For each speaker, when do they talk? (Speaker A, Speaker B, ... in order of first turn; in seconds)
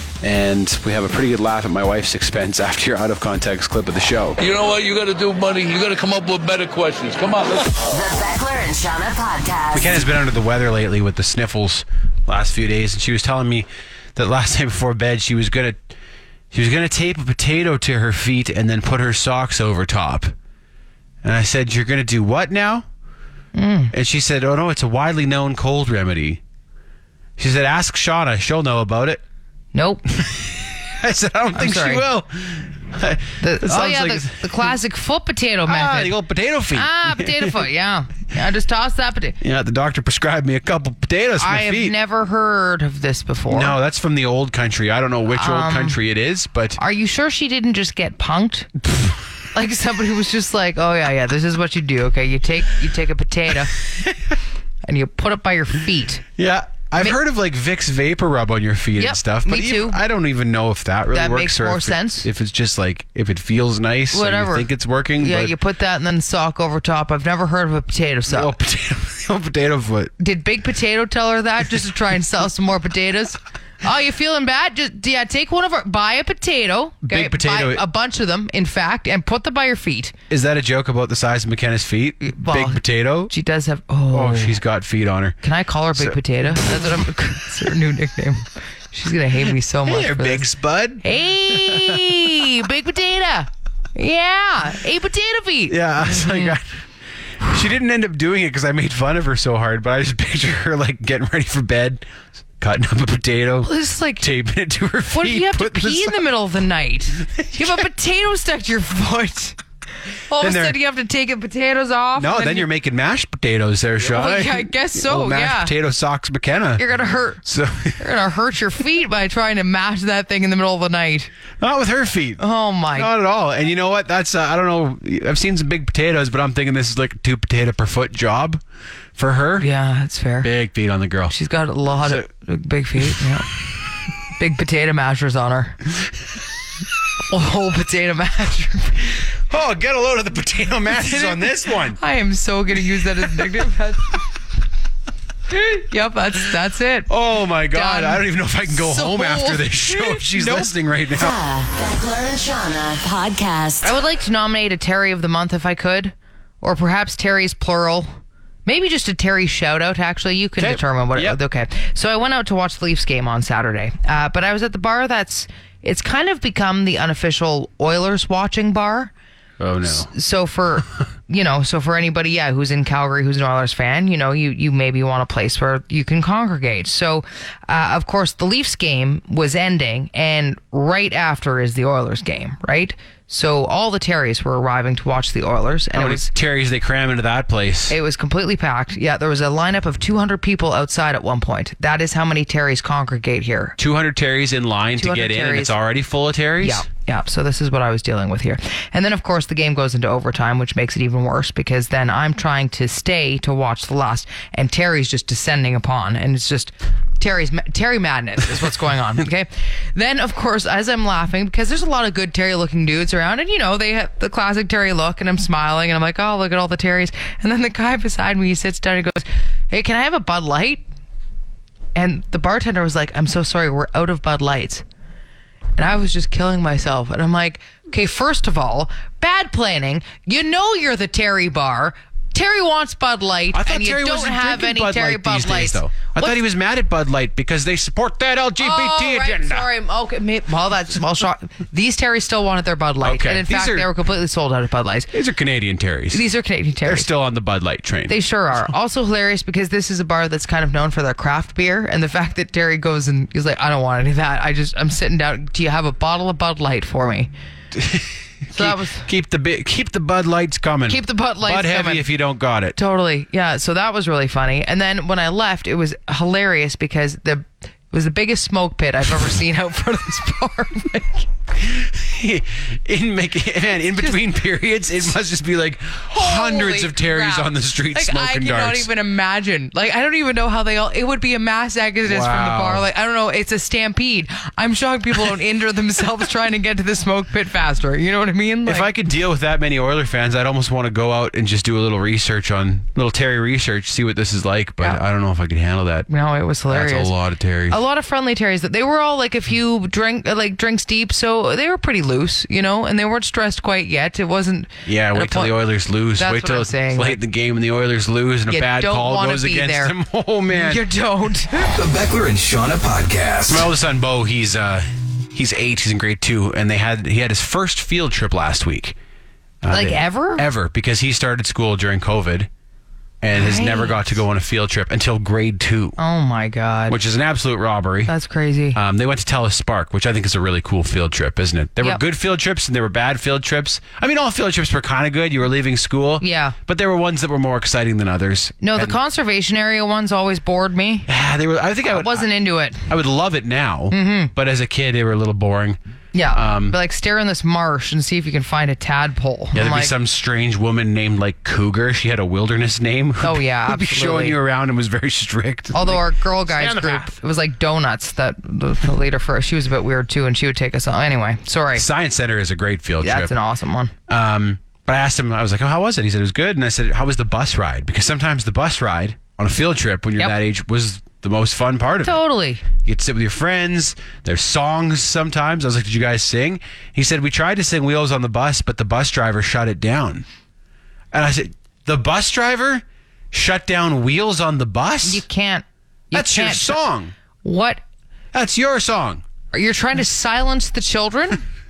Speaker A: 0.2-4.4, 9.7-15.8, 16.5-20.3, 21.2-22.8, 23.9-26.4, 27.4-29.2, 30.2-34.7, 35.7-37.6, 39.4-41.9, 43.5-46.8, 56.4-65.5, 68.3-70.1, 77.0-77.8, 80.3-83.3, 84.1-85.4, 85.9-87.0, 89.9-92.1, 95.7-96.7, 97.4-102.1, 102.6-106.2, 107.3-107.7, 110.4-110.8, 112.2-116.8, 117.4-118.0, 121.6-122.4, 122.9-128.6, 129.2-129.7, 130.4-131.3, 139.5-142.0, 147.1-151.3, 160.6-161.4, 169.6-170.1, 185.9-187.9, 193.8-196.8, 233.5-239.7, 243.0-243.9, 245.1-246.2, 246.8-248.2, 257.7-262.8, 271.6-278.9, 282.0-282.9, 288.6-296.1, 296.7-297.8, 304.9-310.8, 313.5-318.9, 319.6-322.5, 323.2-326.0, 326.9-328.1, 328.7-339.0, 341.1-342.2, 342.9-345.8, 346.3-346.8, 349.5-357.1, 361.7-363.4, 364.1-372.2, 372.8-380.2, 381.1-385.2, 386.1-387.1, 388.3-389.2
Speaker B: 4.4-7.7
Speaker C: 7.8-10.1, 151.1-153.9
Speaker D: 23.5-23.9, 29.7-30.0, 31.5-32.0, 33.4-36.1, 36.7-39.4, 41.4-43.7, 45.3-46.0, 46.8-48.7, 49.5-53.7, 54.9-56.2, 59.0-60.0, 61.1-62.3, 64.1-68.5, 70.2-80.1, 82.2-84.6, 85.4-90.5, 91.0-96.6, 103.6-104.2, 105.1-109.6, 110.3-112.7, 114.0-115.7, 116.8-117.4, 118.0-121.3, 122.4-123.1, 129.6-130.5, 131.3-133.5, 134.4-135.8, 137.3-139.1, 140.9-144.2, 145.5-147.1, 147.7-150.7, 153.8-158.1, 158.7-169.1, 169.8-186.3, 187.9-193.8, 195.0-195.7, 196.6-220.8, 221.9-224.8, 225.8-236.4, 238.6-245.1, 246.1-247.1, 248.1-257.3, 258.5-259.1, 260.9-262.1, 262.8-271.2, 276.1-288.9, 296.1-297.1, 297.7-305.6, 306.2-307.2, 308.5-309.9, 310.5-311.7, 319.7-320.4, 323.3-324.0, 326.0-327.0, 328.1-328.8, 336.2-336.6, 338.6-341.1, 341.9-342.9, 343.9-344.3, 346.1-349.9, 353.2-354.4, 355.7-361.8, 363.0-363.9, 372.0-372.6, 385.0-386.8, 387.4-387.8, 389.5-391.4
Speaker E: 311.6-313.7